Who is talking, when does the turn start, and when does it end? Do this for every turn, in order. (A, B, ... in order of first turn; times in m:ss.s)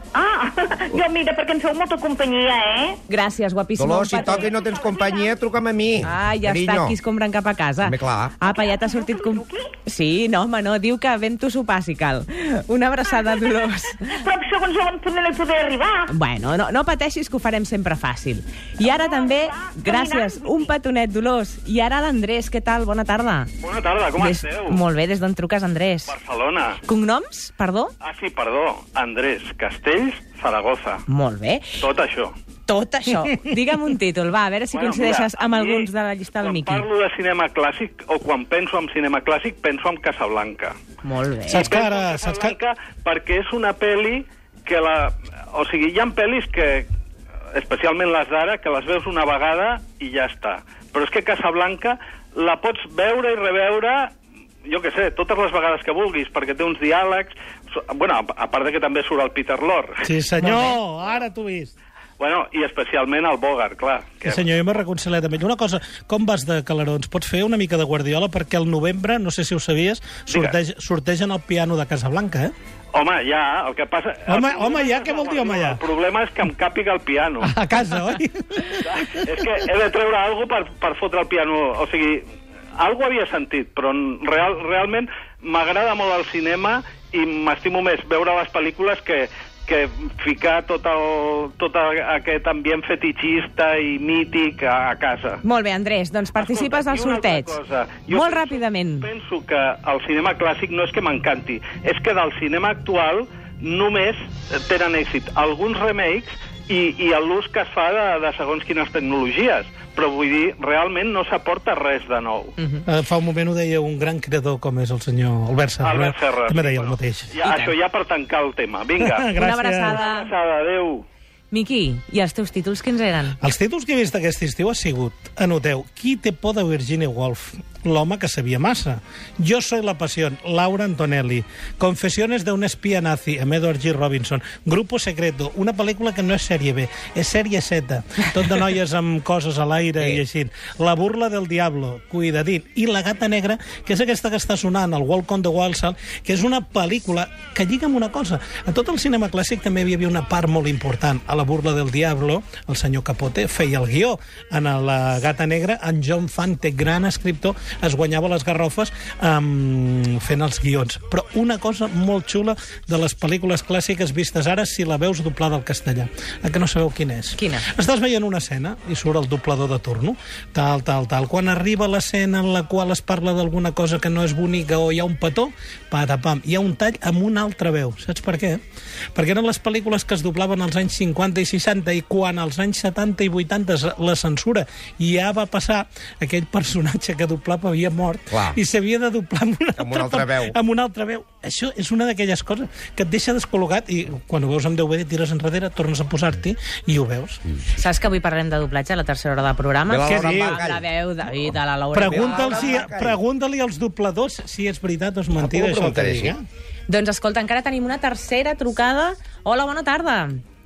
0:00.2-0:03.0 A
0:03.1-0:04.5 B
0:03.8-0:07.0 C
0:04.2-0:05.4 A
0:06.0-0:14.2 B
0:07.8-0:08.4 C
0:08.4-0:09.7 A
0:14.1-0:16.1 A
0:16.1-0:23.5 B
0:18.8-0:20.7 A
0:23.6-0:24.8 D
0:24.2-0:26.1 B
0:26.1-0:26.8 D
0:26.8-0:27.9 B
0:28.0-0:31.0 D
0:31.1-0:31.7 B
0:31.8-0:32.4 D
0:32.7-0:36.9 B
0:34.7-0:40.8 D
0:41.0-0:41.8 B
0:41.5-0:42.6 E
0:41.5-0:46.9 D
0:47.5-0:54.1 D
0:54.7-0:59.9 D
1:00.0-1:01.7 E
1:02.2-1:04.4 D
1:04.2-1:12.5 E
1:10.3-1:10.6 D
1:12.9-1:17.5 D
1:14.3-1:15.8 E
1:17.4-1:19.2 E
1:18.9-1:35.4 D
1:35.4-1:39.1 B
1:36.4-1:52.5 D
1:52.6-1:52.8 B
1:52.9-1:57.3 E
1:55.8-1:59.3 D
1:57.4-1:57.8 B
1:59.0-2:00.0 E
1:59.4-2:00.3 B
1:59.9-2:01.0 D
2:01.5-2:03.4 B
2:03.4-2:58.6 E
2:47.4-2:47.7 B
2:59.2-3:17.4 E
3:08.3-3:08.6 C
3:09.8-3:10.5 C
3:17.8-3:22.8 B
3:19.9-3:20.8 C
3:20.0-3:20.6 E
3:21.9-3:26.4 E
3:22.1-3:23.2 C
3:25.4-3:26.4 C
3:26.9-3:30.3 B